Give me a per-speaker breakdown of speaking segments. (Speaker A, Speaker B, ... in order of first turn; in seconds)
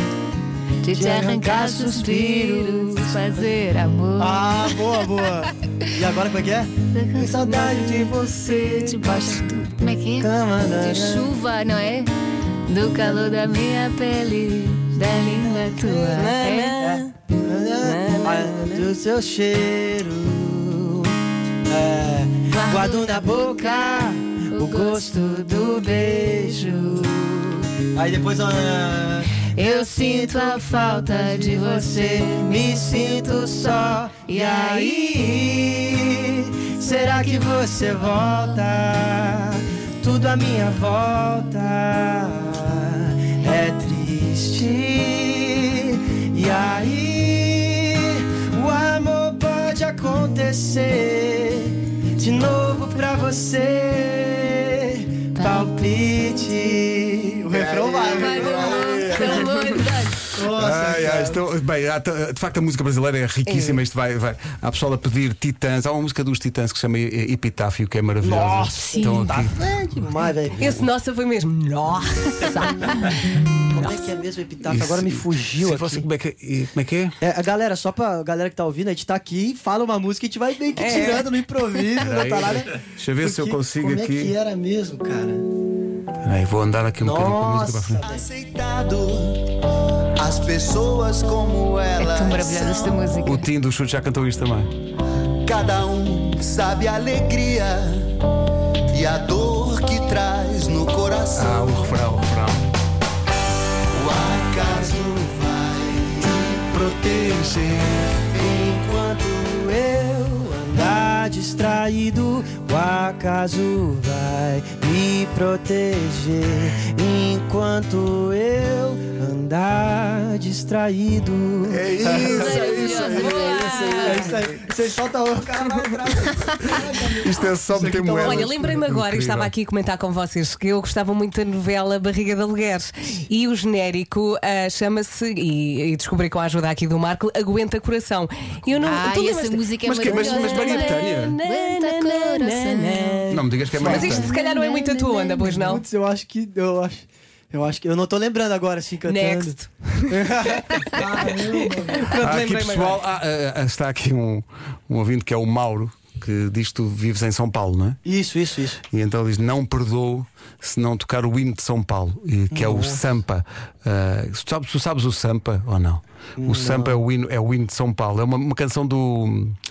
Speaker A: 0.8-4.8, 6.9-7.3, 8.5-12.1, 12.7-16.7, 22.5-26.9, 29.4-35.0, 55.4-55.7, 58.2-60.2, 92.0-93.4, 122.3-124.1, 138.8-143.3, 143.9-145.5
Speaker B: 0.8-3.5, 4.2-9.4, 10.2-11.3, 15.2-21.1, 21.7-59.3, 60.3-61.4, 68.2-70.8, 72.4-73.0, 73.7-76.1, 77.2-85.4, 87.0-88.3, 108.3-128.7, 143.8-144.2, 145.5-152.1, 158.0-158.8, 162.5-163.0, 166.4-167.0
Speaker C: 7.4-8.7, 16.1-17.1, 17.8-18.9, 63.4-63.8, 70.6-72.9, 80.8-81.3, 123.0-124.3, 128.1-145.8, 149.0-153.0
Speaker D: 57.7-59.6, 88.0-89.4, 90.2-93.0, 95.4-98.2, 98.9-102.0, 103.9-108.3
Speaker E: 58.3-59.8, 60.5-69.6, 70.4-70.9, 74.7-77.1, 82.0-84.3, 86.2-88.0, 93.2-94.7, 101.3-102.7, 107.4-107.7, 121.7-124.4, 127.2-129.5, 139.8-141.4, 143.3-144.3, 152.2-158.0, 158.9-169.6